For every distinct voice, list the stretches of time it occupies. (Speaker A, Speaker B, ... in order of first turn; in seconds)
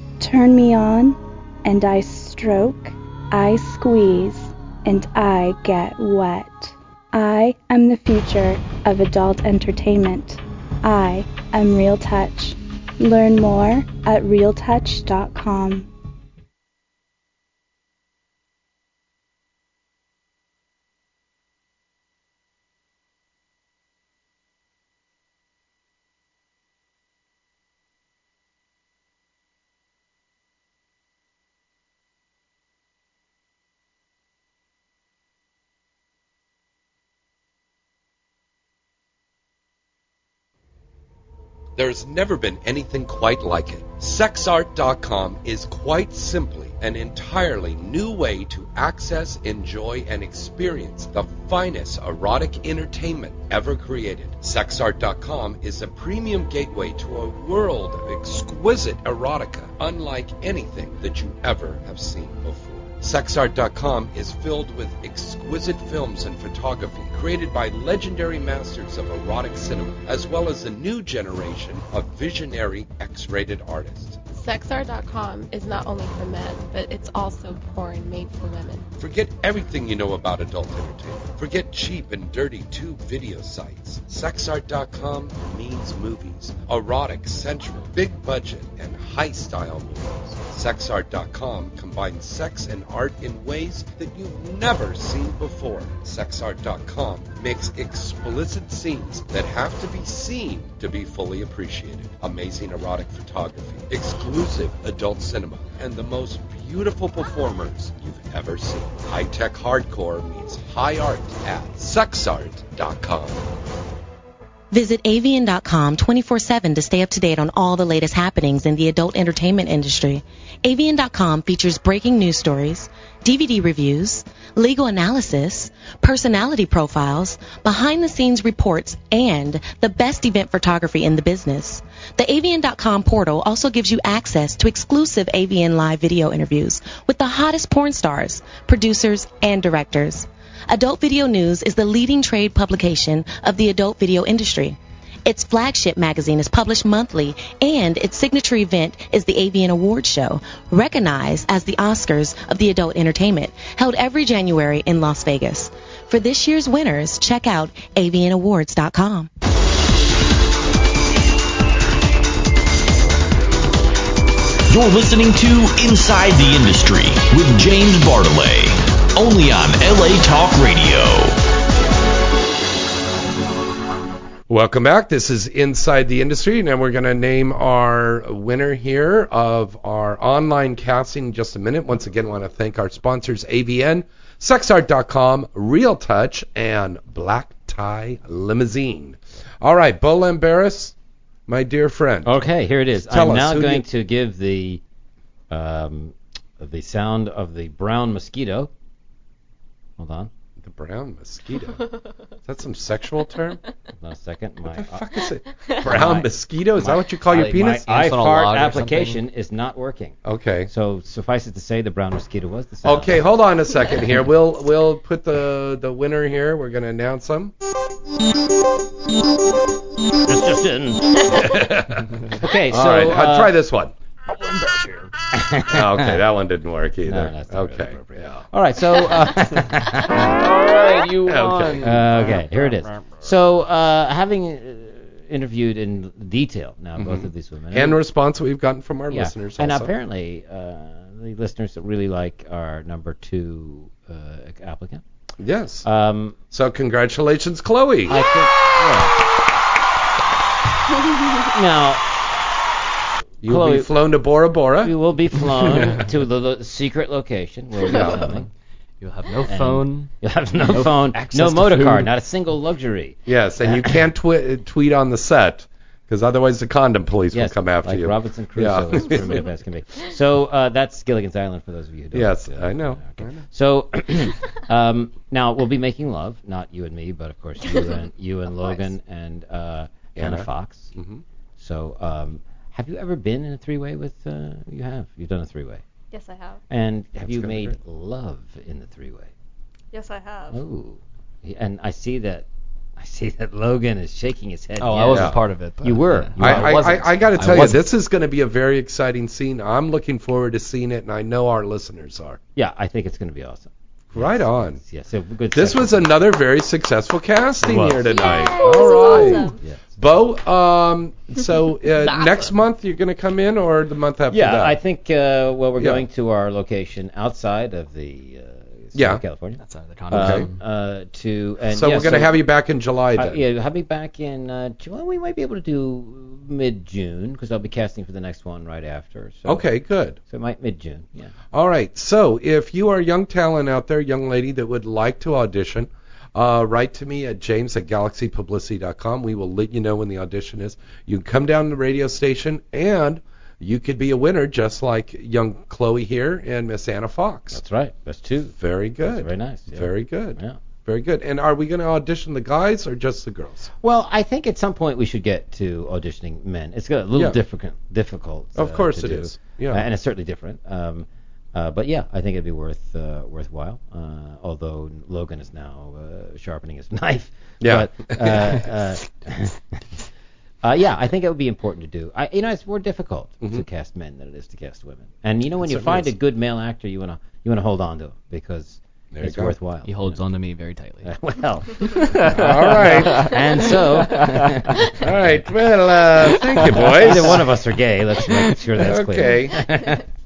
Speaker A: 0.2-15.9
Speaker B: 41.8-74.2, 79.0-113.5, 174.5-190.9, 191.5-192.3, 193.1-193.8, 200.6-201.9, 202.4-203.6, 204.7-207.9, 210.2-210.7, 212.8-217.5, 221.2-223.9, 225.7-228.0, 231.3-232.0, 237.0-239.9, 245.4-245.9, 246.5-248.2, 253.4-254.9, 257.9-258.4, 263.3-269.5, 272.1-273.4, 280.2-281.2, 287.2-287.8, 295.1-295.4, 296.4-302.4, 304.1-304.8, 305.5-314.8, 315.8-316.1, 318.9-319.2, 320.1-320.5, 321.7-323.4, 329.5-330.2, 331.5-347.6, 348.6-353.7, 358.6-359.8, 367.6-368.7, 375.6-376.1, 379.1-379.6, 382.2-383.3, 385.0-387.4, 388.8-389.7
Speaker C: 74.3-78.9
Speaker D: 114.7-159.3
Speaker E: 164.7-171.4
Speaker F: 192.3-194.8, 195.5-198.7, 200.0-200.3, 204.0-205.2, 205.8-213.2, 220.2-221.5, 222.4-223.6, 225.3-226.2, 227.1-230.3, 231.8-238.0, 239.1-245.0, 245.8-246.4, 248.1-249.1, 251.5-252.0, 253.4-253.9, 254.8-258.5, 259.4-263.2, 267.3-280.9, 281.6-285.8, 286.7-289.3, 290.5-292.5, 293.0-297.1, 302.6-306.1, 307.6-309.8, 314.3-322.4, 323.2-329.7, 330.3-331.3, 347.5-350.6, 353.8-369.8, 370.6-380.2, 381.0-385.4, 386.6-390.0
Speaker G: 207.3-209.2, 224.4-224.9, 230.3-233.1, 259.0-260.1, 260.6-262.1, 294.8-297.8, 319.6-320.6, 379.9-381.1, 381.8-383.4, 384.1-384.9, 386.5-387.0
Speaker H: 277.6-278.9, 286.1-286.6, 289.9-290.6, 308.1-309.6